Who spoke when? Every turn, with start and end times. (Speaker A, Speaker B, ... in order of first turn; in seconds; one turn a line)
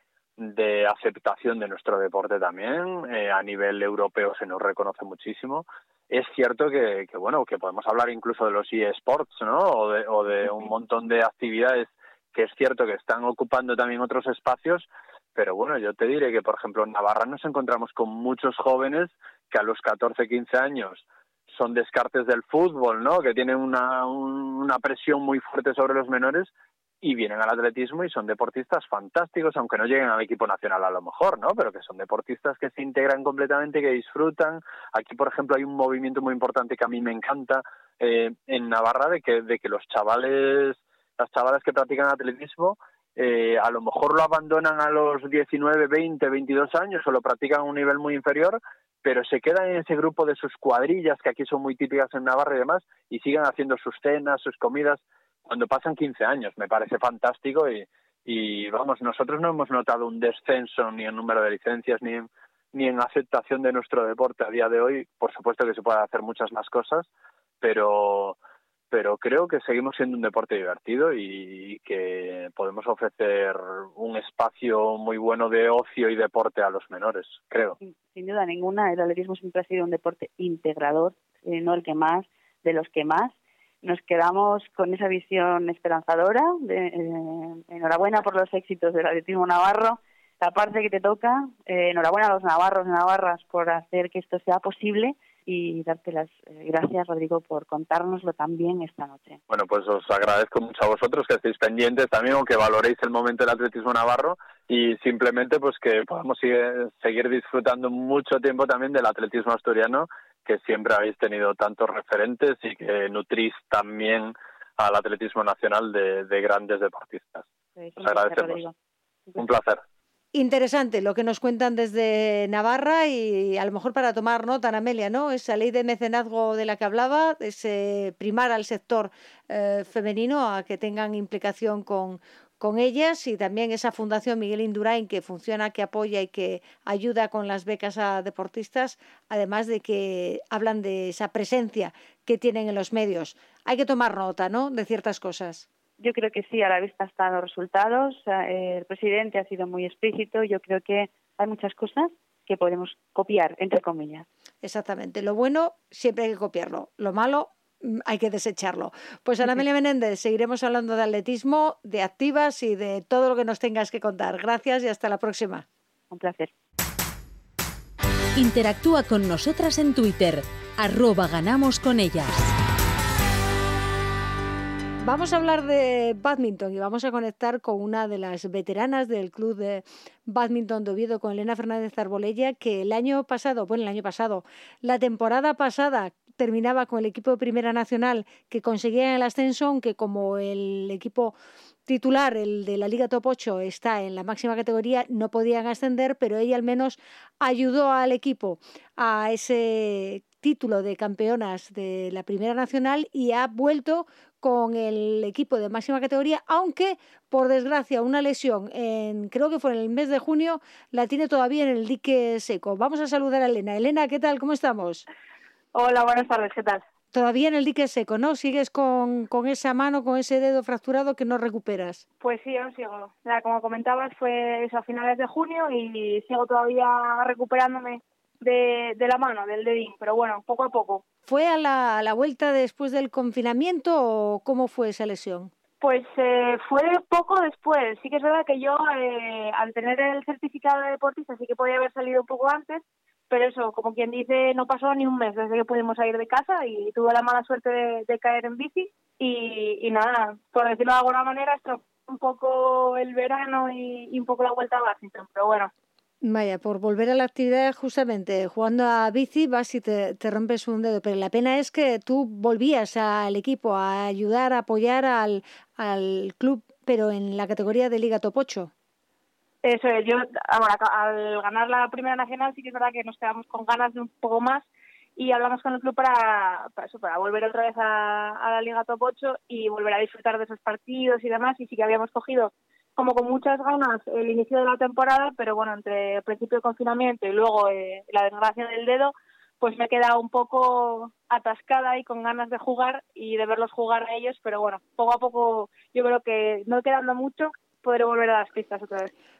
Speaker A: 0.4-67.1
Speaker A: 67.6-68.4
Speaker A: 68.9-77.8
Speaker B: 77.8-99.4
Speaker A: 99.5-117.5
Speaker B: 117.8-118.7
Speaker A: 118.0-118.6
Speaker A: 119.4-119.8
Speaker C: 120.3-145.7
Speaker B: 146.0-154.2
Speaker C: 154.6-165.6
Speaker B: 166.1-166.5
Speaker D: 168.3-172.5
Speaker C: 175.0-191.3
Speaker C: 191.8-215.1
Speaker E: 215.7-216.8
Speaker C: 217.1-222.0
Speaker E: 222.2-231.0
Speaker C: 231.3-235.5
Speaker E: 235.8-255.7
Speaker C: 256.2-268.7
Speaker E: 269.6-274.6
Speaker E: 275.2-299.1